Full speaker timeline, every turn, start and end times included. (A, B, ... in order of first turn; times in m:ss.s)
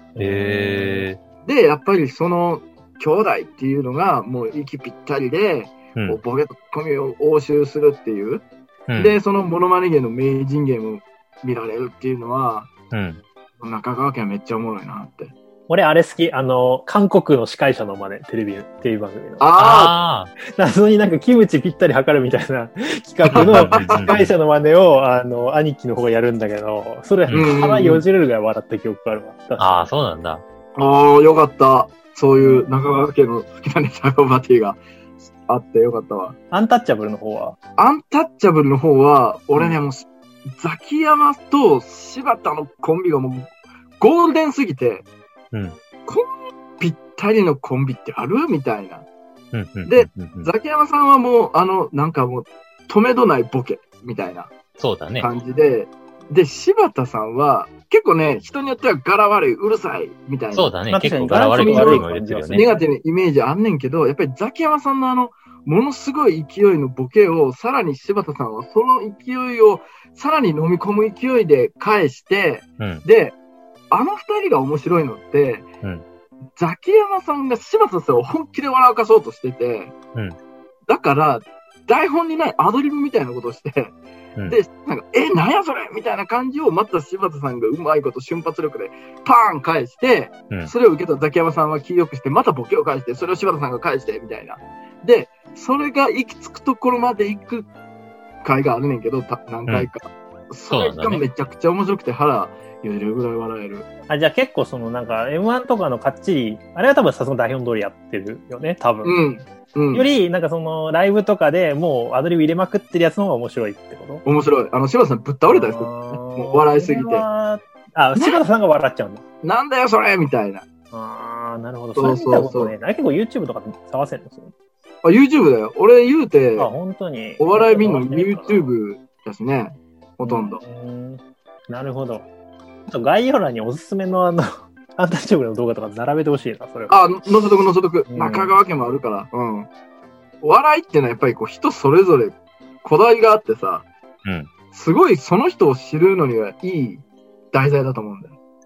0:00.2-0:01.1 A
0:00.2-0:01.2 B
0:01.4-0:08.5 C
0:08.9-0:09.2 B
0:09.0-0:12.7 C
0:12.9-0:13.2 B
0:13.6-0:15.3 C
0:15.7-0:19.5 A
0:19.4-0:19.9 C
0:19.6-0:20.3 B
0:20.5-0:29.8 A
0:23.3-0:24.3 B
0:23.3-0:24.2 C
0:27.3-0:28.0 C
0:29.6-0:30.4 B
0:30.8-0:34.8 C
0:32.4-0:32.8 A
0:35.5-0:36.4 C
0:36.5-0:37.6 A
0:37.8-0:45.1 C
0:46.8-0:49.1 C
0:49.5-0:50.5 B
0:49.9-0:54.5 C
0:54.8-0:55.3 B
0:55.2-1:00.7 C
1:00.5-1:02.7 B
1:00.9-1:02.9 A
1:01.5-1:13.4 C
1:12.8-1:13.0 B
1:13.9-1:15.7 C
1:16.6-1:19.9 C
1:20.9-1:37.7 C
1:38.4-1:43.9 C
1:40.7-1:41.2 B
1:44.1-1:49.2 A
1:49.0-1:50.1 C
1:49.9-1:54.2 A
1:54.2-1:57.2 C
1:55.5-1:59.2 A
1:59.4-2:00.7 C
2:00.9-2:04.5 A
2:02.0-2:02.7 C
2:05.0-2:06.7 C
2:06.6-2:08.7 A
2:07.4-2:10.6 C
2:10.2-2:12.3 A
2:12.9-2:17.1 A
2:16.9-2:19.7 C
2:18.1-2:18.6 A
2:20.4-2:23.9 C
2:24.2-2:24.5 B
2:24.7-2:28.3 C